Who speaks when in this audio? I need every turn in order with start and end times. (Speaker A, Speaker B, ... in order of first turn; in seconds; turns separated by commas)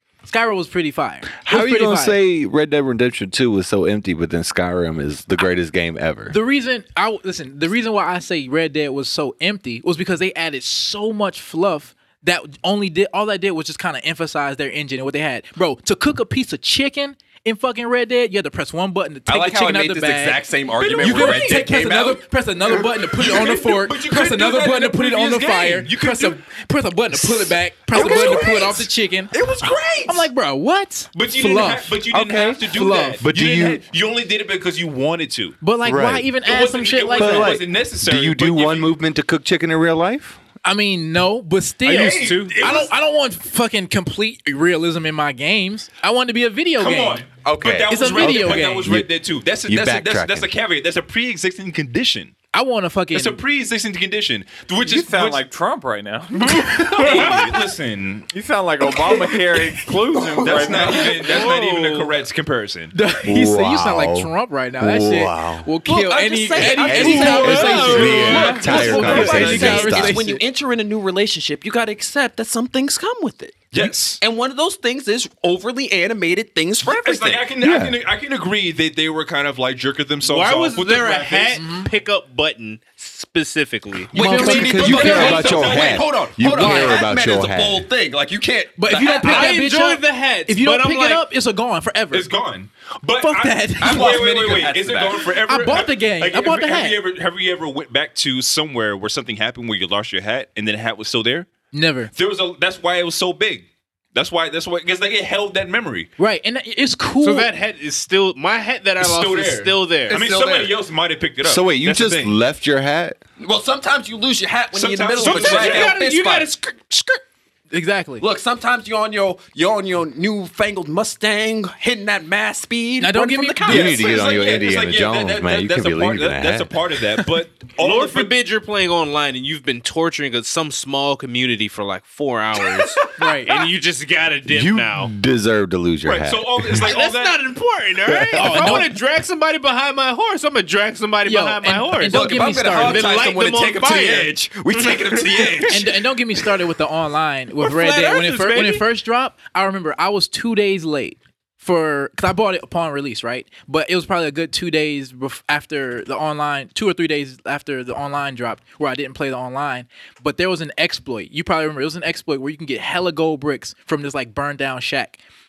Speaker A: 0.2-2.2, Speaker B: 1.4-6.3, Speaker A: 6.3-29.3, Speaker C: 19.3-22.3, Speaker D: 20.8-21.7, Speaker D: 22.8-26.4, Speaker D: 27.2-30.3, Speaker C: 27.9-30.0, Speaker A: 30.1-32.0, Speaker D: 31.1-35.6, Speaker B: 32.1-32.6, Speaker A: 32.6-33.2, Speaker B: 33.2-33.8, Speaker A: 35.6-37.6, Speaker B: 35.8-36.3, Speaker D: 36.4-38.9, Speaker B: 37.2-40.4, Speaker A: 40.6-47.3, Speaker E: 41.8-42.6, Speaker D: 41.9-42.9, Speaker D: 46.8-52.3, Speaker B: 47.4-49.1, Speaker A: 47.9-48.9, Speaker B: 49.6-50.5, Speaker A: 52.5-53.4, Speaker D: 53.1-55.4, Speaker F: 54.8-57.4, Speaker D: 56.5-58.3, Speaker F: 58.3-61.3, Speaker D: 60.3-62.9, Speaker E: 61.0-62.3, Speaker A: 62.9-70.4, Speaker B: 63.2-65.7, Speaker C: 65.8-77.5, Speaker B: 66.8-70.2, Speaker D: 66.9-69.7, Speaker E: 67.4-68.4, Speaker F: 68.2-69.3, Speaker D: 73.7-74.2, Speaker D: 76.9-81.6, Speaker B: 77.6-78.0, Speaker E: 80.2-84.1, Speaker A: 81.5-81.9, Speaker A: 84.1-85.4, Speaker C: 84.1-89.5, Speaker B: 84.1-87.9, Speaker D: 84.4-86.1, Speaker A: 86.4-87.0, Speaker A: 88.8-92.3, Speaker E: 89.2-91.2, Speaker D: 92.1-101.5, Speaker A: 93.2-94.2, Speaker C: 93.8-95.3, Speaker A: 95.4-97.0, Speaker A: 101.7-102.1, Speaker D: 102.1-106.1, Speaker A: 106.2-107.5, Speaker E: 107.2-110.2, Speaker D: 109.0-112.3, Speaker C: 110.1-110.8, Speaker B: 111.4-113.2, Speaker C: 113.4-117.0, Speaker D: 114.7-116.0, Speaker E: 115.2-117.2, Speaker A: 117.7-118.2, Speaker C: 118.2-124.6, Speaker A: 123.0-124.0, Speaker B: 123.7-126.7, Speaker D: 123.9-128.3, Speaker E: 127.8-135.1, Speaker C: 132.8-133.0, Speaker A: 133.2-133.5, Speaker B: 134.5-136.8, Speaker D: 136.0-137.5, Speaker E: 136.7-145.7, Speaker B: 138.1-138.7, Speaker A: 138.3-138.9, Speaker A: 141.2-143.1, Speaker C: 142.1-145.9, Speaker A: 145.7-165.2, Speaker E: 147.6-148.8